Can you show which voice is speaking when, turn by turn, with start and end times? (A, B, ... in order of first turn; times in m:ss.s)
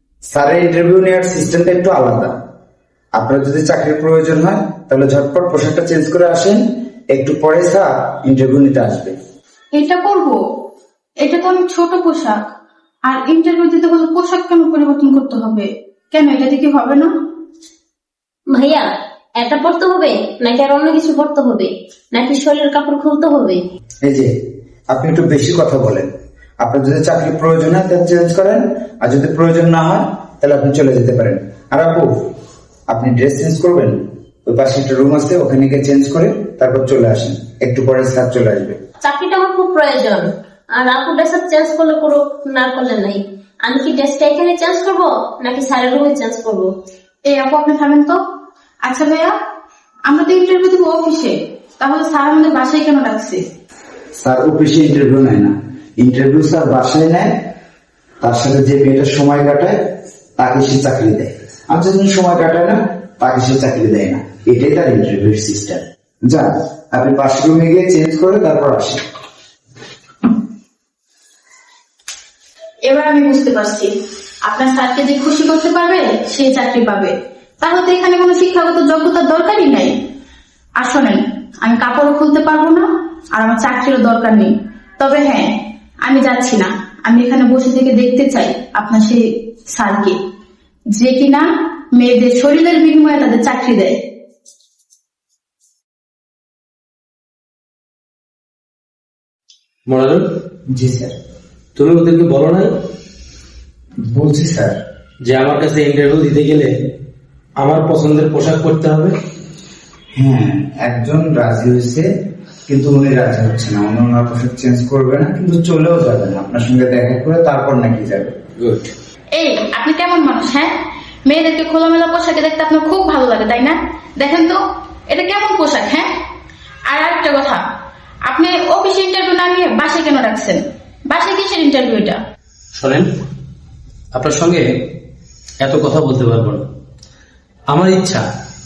0:00.3-0:02.3 A
0:03.2-0:09.2 A
0:09.7-0:10.4 B
0:11.2-0:12.5 B
0:13.0-0:17.1 B
0:18.5-0:18.9 C
0:19.4-0:23.6 C
0:24.0-0:24.3 A
0:24.9-0:26.1 A
0:26.6-0:32.1 A
0:32.9-0:38.8 A
0:39.0-0:46.7 C
0:47.2-0:48.2 B
0:48.8-0:49.3 B
0:50.1-0:53.4 B
0:54.2-0:57.3 A
0:58.2-0:59.8 A
1:00.4-1:09.0 A
1:12.8-1:13.9 B
1:14.4-1:20.0 B
1:20.8-1:30.2 B
1:30.9-1:34.0 B
1:39.9-1:40.2 D
1:40.7-1:41.1 A
1:41.8-1:42.7 D
1:44.1-1:44.8 A
1:45.3-1:46.7 D
1:47.6-1:49.1 D
1:50.2-1:52.1 A
1:52.7-1:58.4 A
1:58.6-1:58.9 D
1:59.4-2:00.7 B
2:01.3-2:06.1 B
2:06.9-2:07.6 B
2:08.3-2:12.2 B
2:12.8-2:13.1 D
2:14.2-2:14.7 D
2:15.6-2:16.7 D
2:17.7-2:18.2 D